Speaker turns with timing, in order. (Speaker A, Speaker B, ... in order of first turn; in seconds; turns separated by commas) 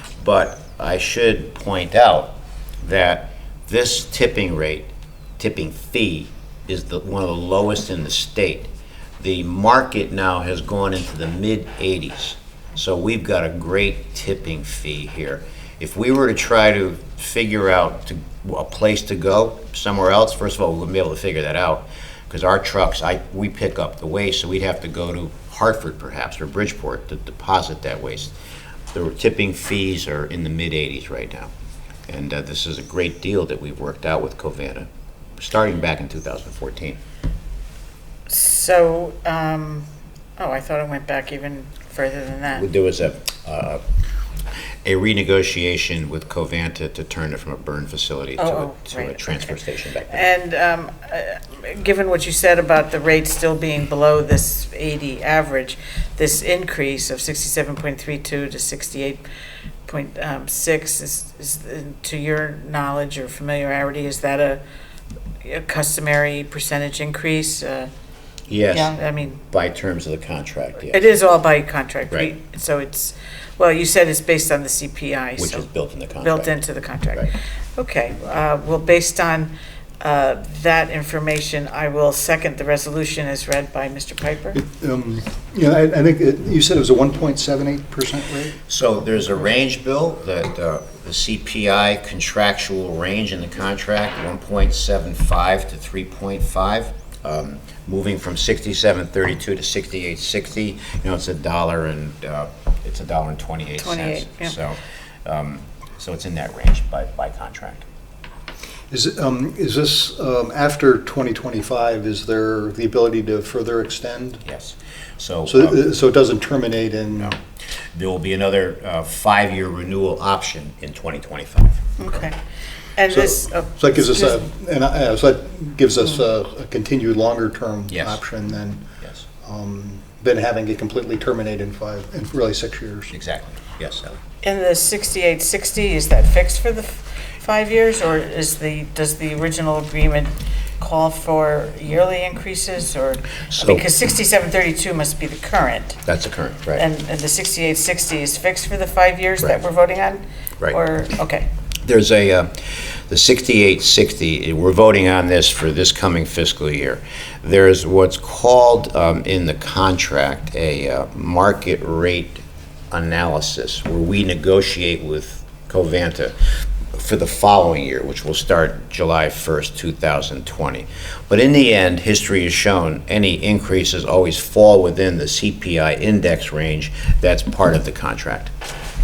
Speaker A: 0.2-28.3, Speaker A: 28.9-31.5, Speaker A: 32.1-37.0, Speaker B: 38.3-42.6, Speaker A: 42.5-43.8, Speaker A: 44.8-50.3, Speaker B: 48.4-59.2, Speaker B: 59.9-64.6, Speaker B: 65.4-67.9, Speaker A: 68.5-71.1, Speaker B: 68.7-69.4, Speaker B: 70.9-75.7, Speaker A: 75.4-76.5, Speaker B: 76.2-84.6, Speaker C: 84.5-88.6, Speaker A: 88.7-107.8, Speaker B: 103.8-104.5, Speaker C: 108.9-114.4, Speaker A: 114.4-115.8, Speaker C: 115.5-117.3, Speaker A: 117.9-121.8, Speaker B: 122.0-122.3, Speaker B: 123.0-124.5, Speaker C: 123.1-128.9, Speaker A: 127.9-128.2, Speaker C: 129.4-133.1, Speaker A: 133.1-134.2, Speaker B: 134.4-146.0, Speaker A: 143.5-143.9, Speaker A: 146.0-146.8, Speaker B: 146.8-151.5, Speaker A: 151.8-166.3, Speaker A: 166.9-178.5